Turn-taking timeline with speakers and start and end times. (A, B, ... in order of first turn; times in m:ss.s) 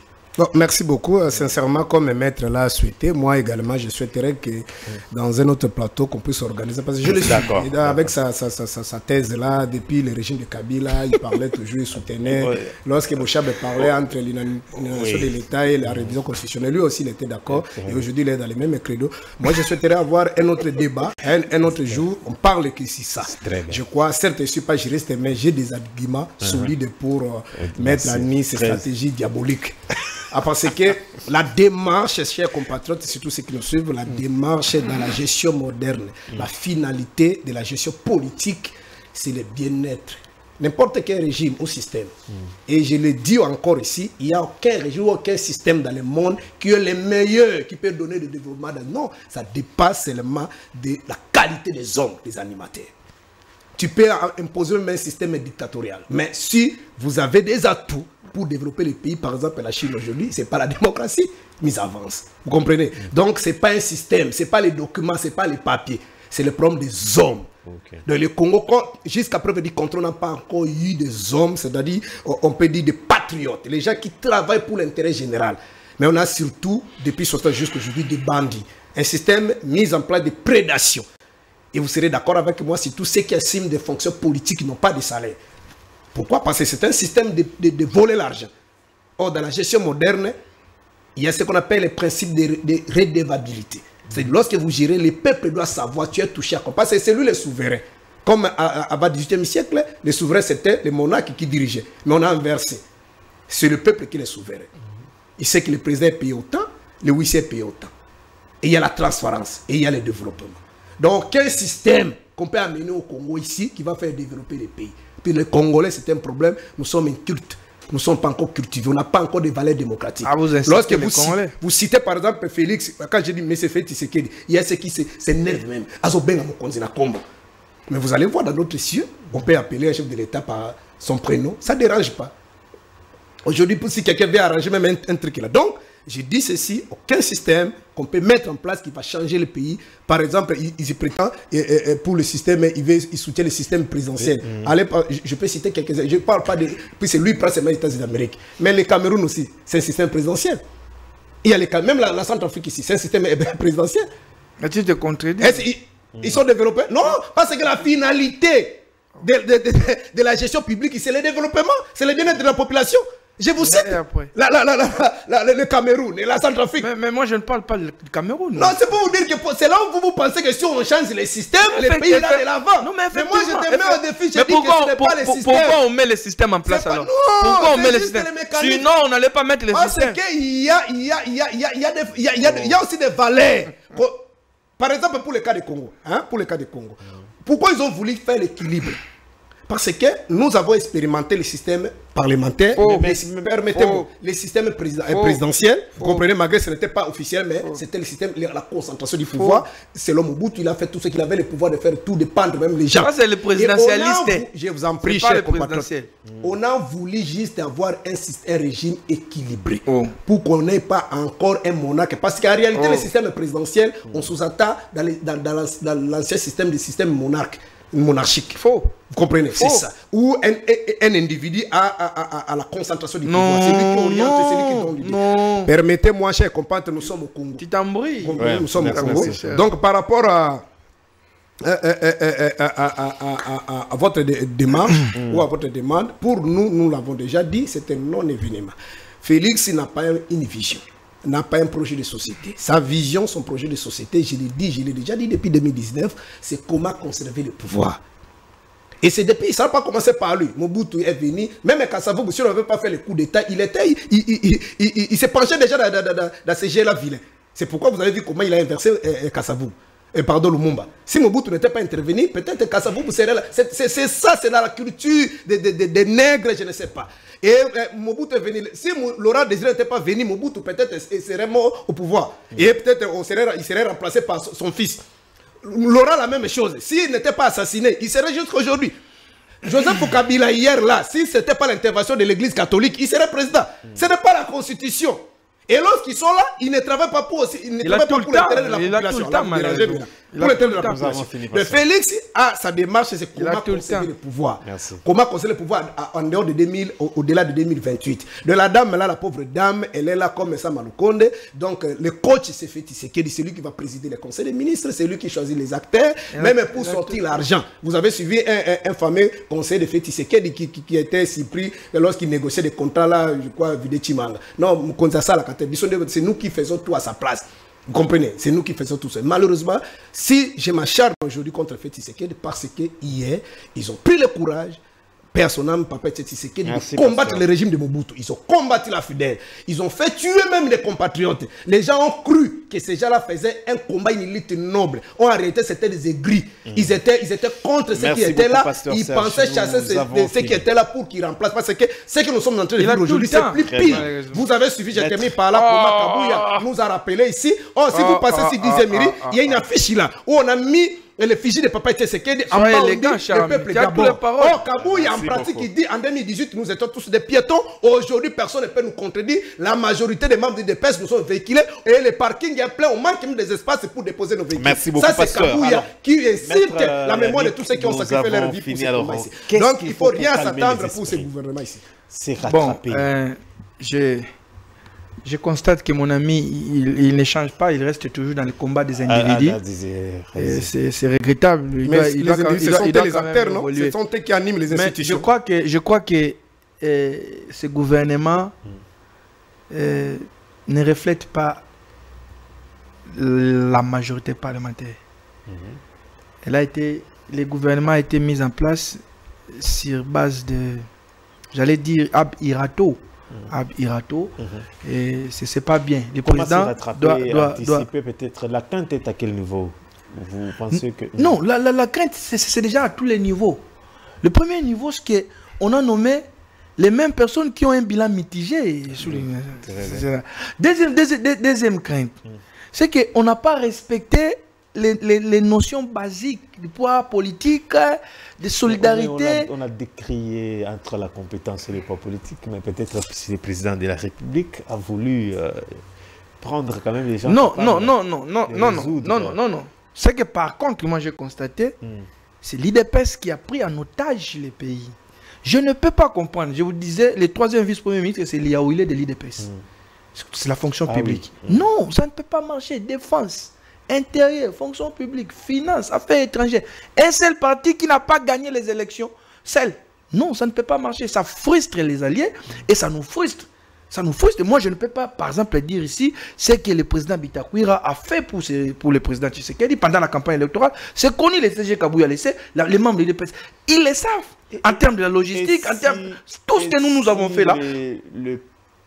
0:00.4-0:42.1 A
0:07.0-0:08.1 B
0:12.2-0:12.8 B
0:14.9-0:16.2 B
0:17.5-0:18.1 B
0:23.3-0:23.8 B
0:26.4-0:26.7 B
0:27.6-0:28.8 B
0:42.7-0:52.9 A
0:53.8-1:07.5 A
1:07.7-1:08.0 B
1:08.0-1:21.0 A
1:21.7-1:25.4 A
1:26.1-1:28.5 A
1:29.2-1:30.3 A
1:31.2-1:42.8 A
1:43.5-1:44.7 A
1:45.4-1:47.9 A
1:48.6-2:07.2 A
2:00.2-2:01.6 C
2:07.9-2:12.3 A
2:13.4-2:30.6 A
2:24.2-2:24.7 B
2:31.4-2:34.1 A
2:34.6-2:35.7 C
2:35.4-2:46.9 A
2:43.6-2:44.3 C
2:46.8-2:48.8 C
2:48.6-2:55.8 A
2:51.7-3:00.2 C
2:56.7-2:58.9 A
2:59.7-3:04.2 A
3:02.4-3:02.7 B
3:04.8-3:09.0 A
3:09.7-3:25.9 A
3:12.8-3:13.2 C
3:12.8-3:13.5 B
3:13.7-3:14.1 C
3:15.1-3:15.4 C
3:16.0-3:16.2 C
3:19.4-3:19.6 C
3:23.0-3:24.5 C
3:25.0-3:26.1 C
3:26.3-3:26.6 B
3:26.4-3:38.6 A
3:29.9-3:30.2 C
3:32.8-3:33.1 C
3:38.6-3:38.9 C
3:39.1-3:47.6 A
3:39.6-3:39.9 C
3:43.2-3:45.7 C
3:47.6-3:49.6 C
3:48.2-3:50.7 A
3:48.4-3:49.4 B
3:51.6-4:08.0 A
3:55.1-3:55.4 B
4:09.0-4:35.0 A
4:35.6-4:39.0 A
4:39.6-5:24.8 A
4:47.8-4:51.0 C
4:50.8-4:51.8 B
4:53.4-4:54.1 C
4:54.6-4:55.0 B
5:06.3-5:07.2 C
5:25.3-6:11.8 A
5:26.6-5:27.4 B
5:36.7-5:37.0 B
5:38.0-5:40.7 B
5:42.8-5:44.4 C
5:43.7-5:44.1 B
5:44.9-5:45.3 B
5:45.5-5:46.7 C
5:47.9-5:49.6 C
5:52.5-5:54.6 C
5:54.8-5:55.7 B
6:04.6-6:05.9 B
6:06.4-6:11.3 B
6:12.1-6:13.1 B
6:12.4-6:14.3 C
6:15.2-6:19.6 C
6:19.0-6:20.7 B
6:20.4-6:23.9 C
6:21.8-6:25.3 A
6:24.7-6:28.5 C
6:29.7-6:31.6 C
6:33.1-6:35.0 C
6:35.5-6:35.8 B
6:36.4-6:39.0 C
6:39.5-6:40.9 C
6:41.5-6:47.9 C
6:44.4-6:44.7 B
6:46.2-6:51.4 B
6:50.7-6:53.6 C
6:54.2-6:56.3 C
6:56.8-7:02.2 C
6:59.0-7:00.1 B
7:02.7-7:09.5 C
7:08.6-7:15.8 B
7:16.4-7:19.4 B
7:17.3-7:21.8 C
7:21.8-7:22.1 B
7:22.4-7:29.5 C
7:30.2-7:57.6 C
7:30.9-7:31.7 B
7:54.5-7:54.8 B
7:55.3-7:58.4 B